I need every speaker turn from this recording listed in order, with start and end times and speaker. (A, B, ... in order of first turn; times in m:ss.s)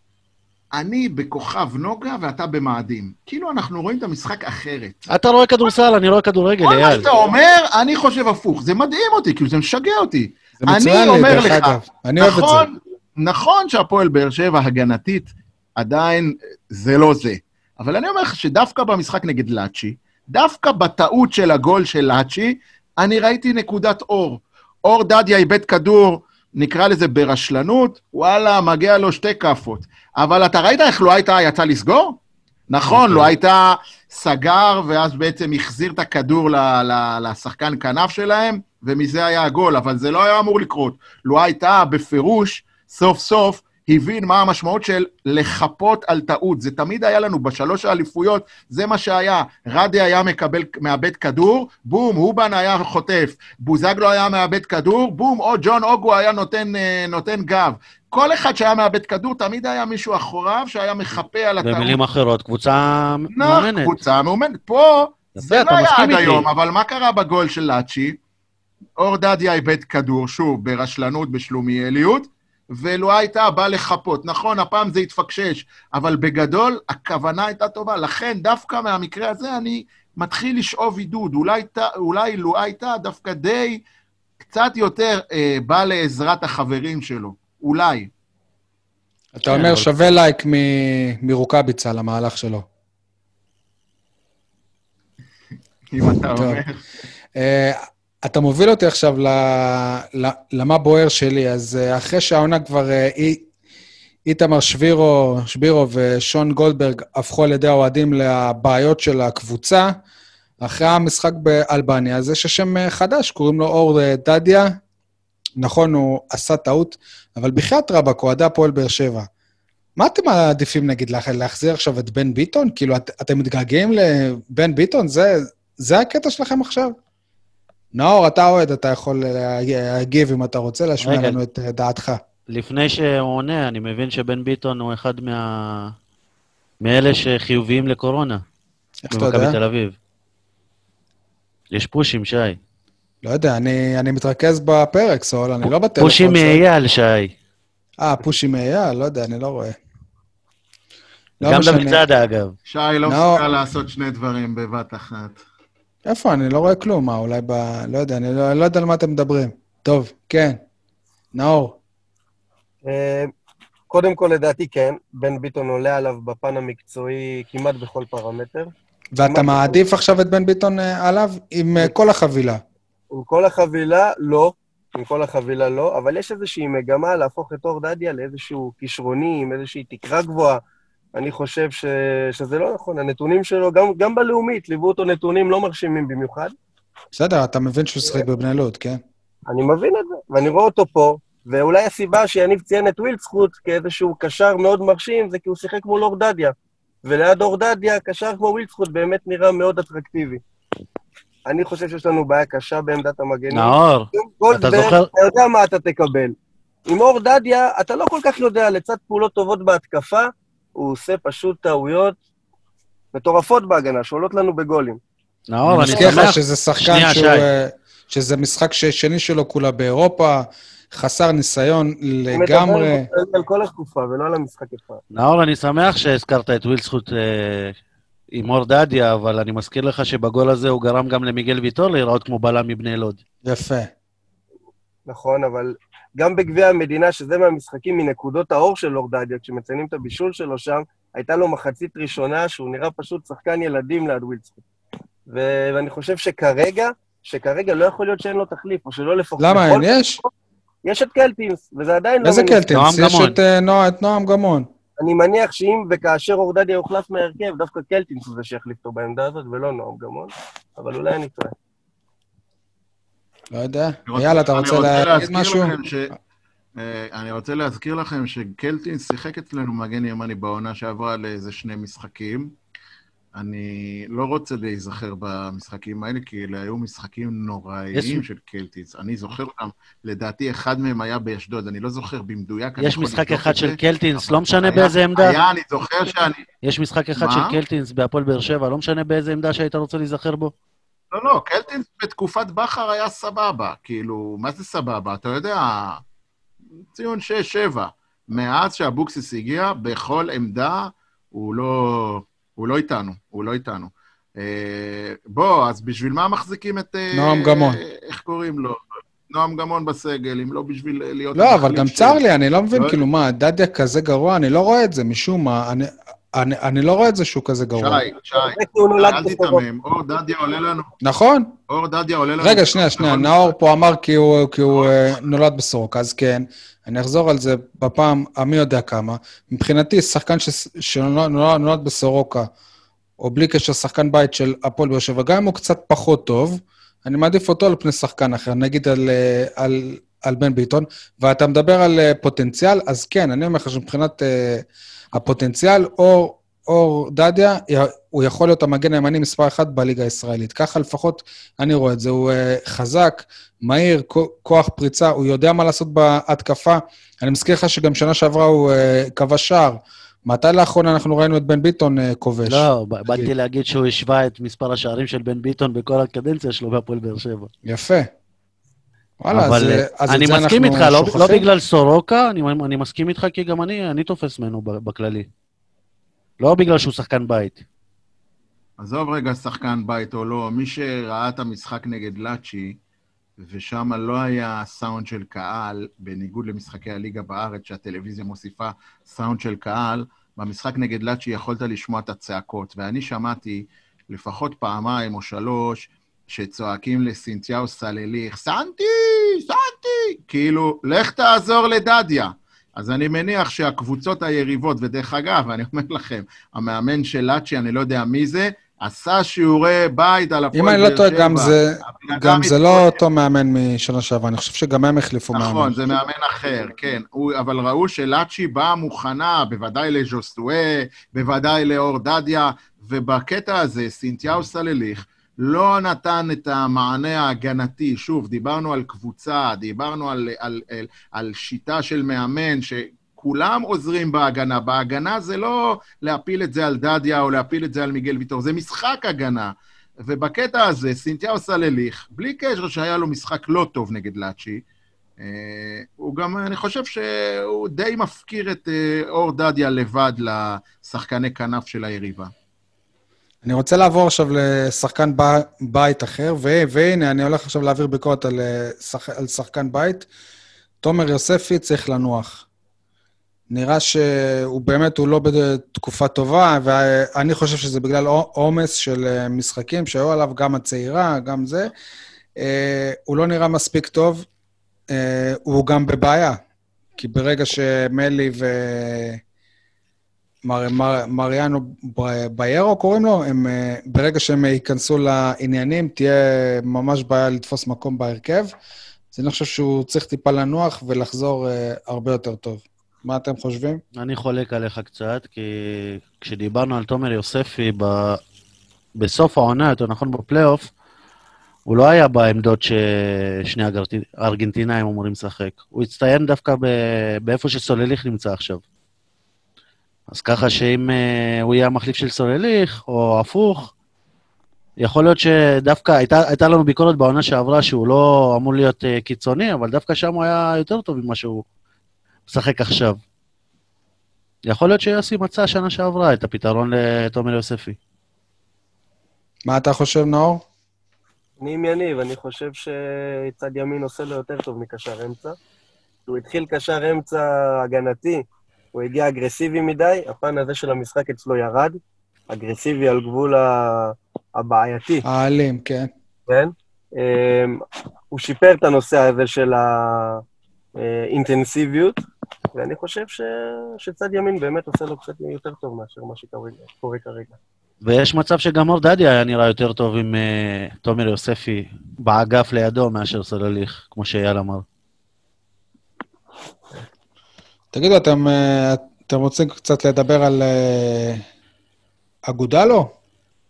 0:00.7-0:05.1 A
0:05.1-0:07.1 B
0:06.6-0:32.2 A
0:10.6-0:12.7 C
0:32.7-1:02.0 A
0:32.9-0:33.3 B
1:01.6-1:04.0 B
1:03.3-1:08.2 A
1:05.4-1:06.5 B
1:09.0-1:23.8 A
1:24.4-1:28.1 A
1:29.3-1:32.6 C
1:29.5-1:29.9 B
1:35.9-1:36.8 A
1:36.0-1:36.6 C
1:37.4-1:43.4 C
1:44.3-1:49.9 C
1:50.6-1:54.8 C
1:55.6-1:59.3 C
2:00.0-2:07.0 C
2:07.9-2:12.2 C
2:11.0-2:11.4 B
2:12.5-2:15.9 B
2:16.8-2:18.4 B
2:19.0-2:19.6 C
2:19.1-2:19.9 B
2:21.7-2:22.6 B
2:23.2-2:26.6 C
2:26.0-2:27.3 B
2:28.0-2:29.8 C
2:31.4-2:32.0 C
2:31.4-2:32.5 B
2:32.7-2:35.4 A
2:33.0-2:33.4 C
2:36.0-2:40.6 C
2:41.3-2:41.8 C
2:42.8-2:43.3 D
2:43.9-2:48.7 D
2:49.1-2:52.6 C
2:49.2-2:49.8 D
2:53.1-3:00.6 D
3:01.2-3:06.5 D
3:07.1-3:09.0 C
3:09.5-3:16.5 D
3:17.0-3:20.4 D
3:21.5-3:26.3 D
3:23.5-3:25.1 B
3:26.9-3:32.2 D
3:33.1-3:35.0 D
3:35.5-3:37.4 B
3:35.6-3:43.0 C
3:35.9-3:36.2 D
3:42.3-3:45.0 D
3:45.1-3:47.7 B
3:48.3-3:53.2 B
3:53.4-3:53.9 C
3:55.1-4:04.6 D
4:05.3-4:10.3 D
4:09.4-4:10.2 C
4:10.8-4:12.6 D
4:12.2-4:14.7 C
4:12.7-4:13.4 B
4:15.0-4:21.5 D
4:23.5-4:25.7 C
4:24.1-4:26.1 A
4:26.8-4:32.5 A
4:33.4-4:46.4 A
4:37.9-4:38.2 B
4:42.8-4:45.4 B
4:46.6-4:50.5 B
4:47.2-4:47.6 A
4:51.1-4:56.0 A
4:56.9-5:12.2 A
5:07.1-5:07.8 C
5:11.3-5:18.0 C
5:12.7-5:13.0 A
5:17.8-5:20.9 A
5:18.4-5:19.6 D
5:21.0-5:21.6 C
5:21.7-5:23.5 A
5:22.4-5:32.5 C
5:33.2-6:03.3 C
6:02.4-6:07.5 B
6:07.6-6:08.1 C
6:09.2-6:11.4 C
6:09.3-6:15.3 B
6:16.4-6:17.6 B
6:18.8-6:22.8 A
6:23.4-6:53.0 A
6:50.5-6:55.7 C
6:55.3-7:24.6 A
7:25.2-7:32.3 A
7:33.4-7:40.1 C
7:40.8-7:42.4 C
7:43.5-7:51.7 C
7:52.4-7:54.2 C
7:54.9-7:56.4 C
7:57.0-7:59.2 C
8:00.4-8:08.5 C
8:09.1-8:13.8 C
8:14.0-8:18.2 B
8:19.0-8:20.7 B
8:21.7-8:28.6 B
8:30.1-8:33.7 B
8:34.8-8:41.4 B
8:42.3-8:43.0 B
8:44.5-8:47.8 B
8:49.5-8:50.4 C
8:51.4-8:55.4 D
8:56.1-8:58.2 D
8:58.7-9:01.8 D
9:02.3-9:05.0 D
9:05.0-9:05.9 C
9:06.3-9:07.6 D
9:08.1-9:10.2 D
9:10.8-9:11.9 D
9:12.5-9:17.4 D
9:17.8-9:24.6 B
9:27.7-9:31.2 C
9:32.3-9:32.9 C